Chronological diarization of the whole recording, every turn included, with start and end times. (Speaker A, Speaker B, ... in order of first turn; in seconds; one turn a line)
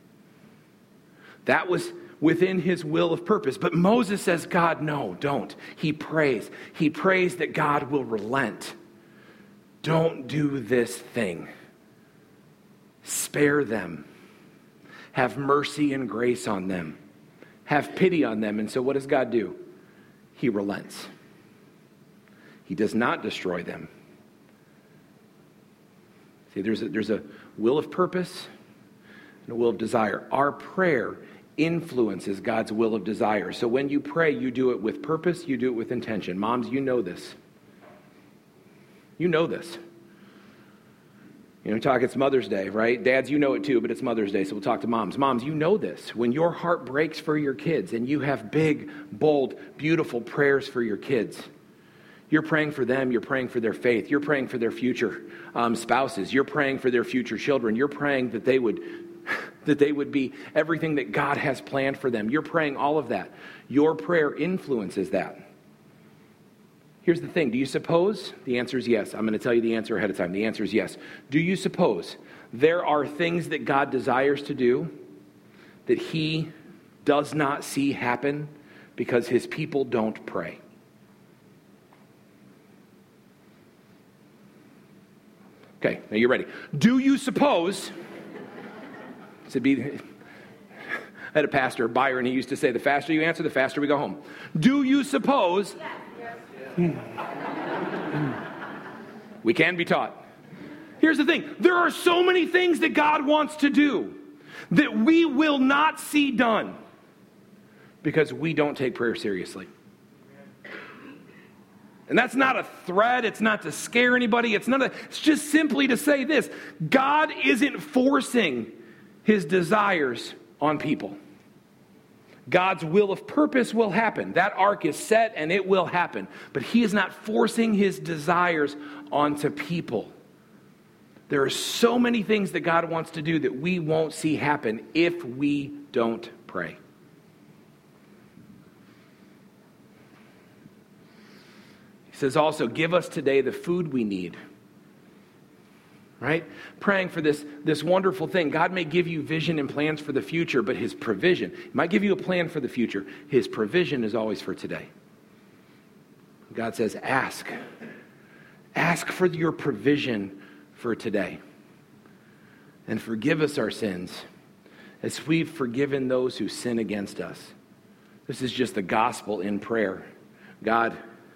Speaker A: 1.4-8.8
Speaker A: 9.8-11.5
Speaker A: 13.0-14.0
Speaker A: 15.1-17.0
Speaker A: 17.6-19.6
Speaker A: 20.4-21.1
Speaker A: 22.7-23.9
Speaker A: 26.5-28.5
Speaker A: 29.5-37.4
Speaker A: 39.2-39.8
Speaker A: 41.6-51.5
Speaker A: 52.3-65.4
Speaker A: 67.0-74.9
Speaker A: 75.8-76.5
Speaker A: 77.0-80.6
Speaker A: 85.8-87.9
Speaker A: 89.5-90.0
Speaker A: 91.3-95.8
Speaker A: 99.4-100.2
Speaker A: 101.0-104.2
Speaker A: 104.7-106.8
Speaker A: 108.0-109.7
Speaker A: 112.1-118.7
Speaker A: 119.2-121.2
Speaker A: 122.5-130.1
Speaker A: 131.3-136.8
Speaker A: 142.1-144.4
Speaker A: 146.2-154.9
Speaker A: 156.5-157.5
Speaker A: 158.7-161.4
Speaker A: 162.9-164.2
Speaker A: 165.0-167.5
Speaker A: 168.3-170.1
Speaker A: 170.6-171.0